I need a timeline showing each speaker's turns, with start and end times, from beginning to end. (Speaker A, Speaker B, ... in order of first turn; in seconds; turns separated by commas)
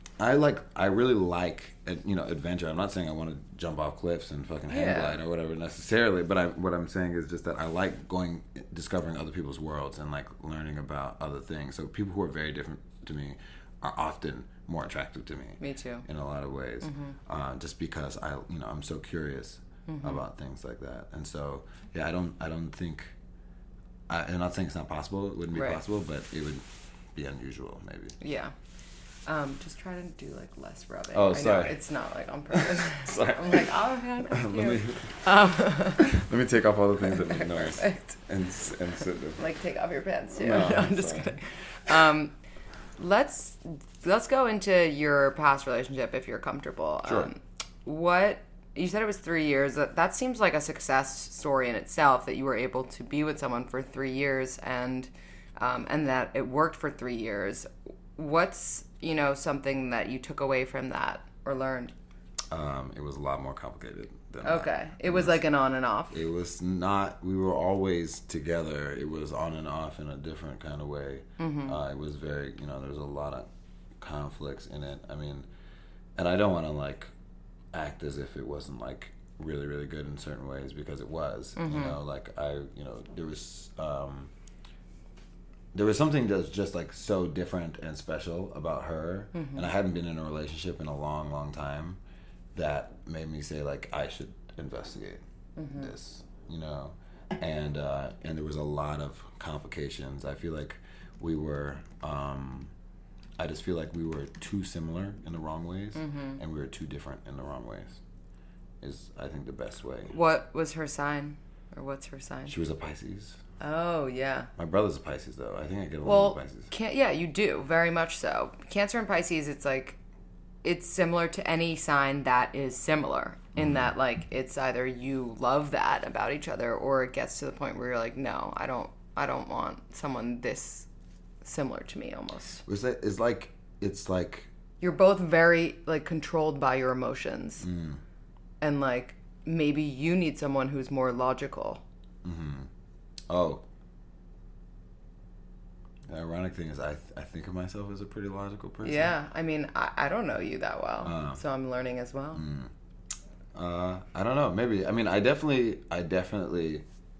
Speaker A: 0.2-23.1, Speaker B: 4.7-5.2, Speaker B: 15.6-16.1, Speaker B: 16.8-17.1, Speaker B: 19.9-20.2, Speaker A: 24.1-28.2, Speaker B: 25.5-25.8, Speaker B: 28.2-28.5, Speaker B: 29.2-36.2, Speaker A: 31.1-31.8, Speaker A: 32.5-35.2, Speaker A: 36.0-39.4, Speaker B: 37.1-38.1, Speaker B: 39.4-42.3, Speaker A: 40.4-42.0, Speaker B: 43.0-61.9, Speaker A: 62.5-65.4, Speaker B: 64.4-66.2, Speaker A: 66.1-73.5, Speaker B: 71.4-71.8, Speaker A: 74.0-75.5, Speaker A: 76.2-77.1, Speaker A: 77.7-84.3, Speaker B: 81.5-82.0, Speaker A: 85.7-92.0, Speaker B: 89.3-89.7, Speaker A: 92.5-95.2, Speaker B: 95.5-95.9, Speaker A: 95.8-102.7, Speaker A: 103.4-108.0, Speaker B: 105.9-106.4, Speaker A: 108.8-110.1, Speaker B: 110.1-112.5, Speaker A: 112.5-113.4, Speaker B: 113.6-114.5, Speaker A: 114.6-116.7, Speaker B: 116.0-120.0, Speaker B: 120.6-130.9, Speaker A: 123.5-123.9, Speaker B: 131.4-132.6, Speaker A: 132.7-134.5, Speaker B: 134.8-137.6, Speaker A: 137.6-138.0, Speaker B: 138.6-141.8, Speaker A: 142.2-142.7, Speaker A: 143.3-143.6, Speaker A: 146.1-149.1, Speaker B: 148.8-152.4, Speaker A: 151.0-151.4, Speaker A: 152.3-152.7, Speaker A: 153.5-156.8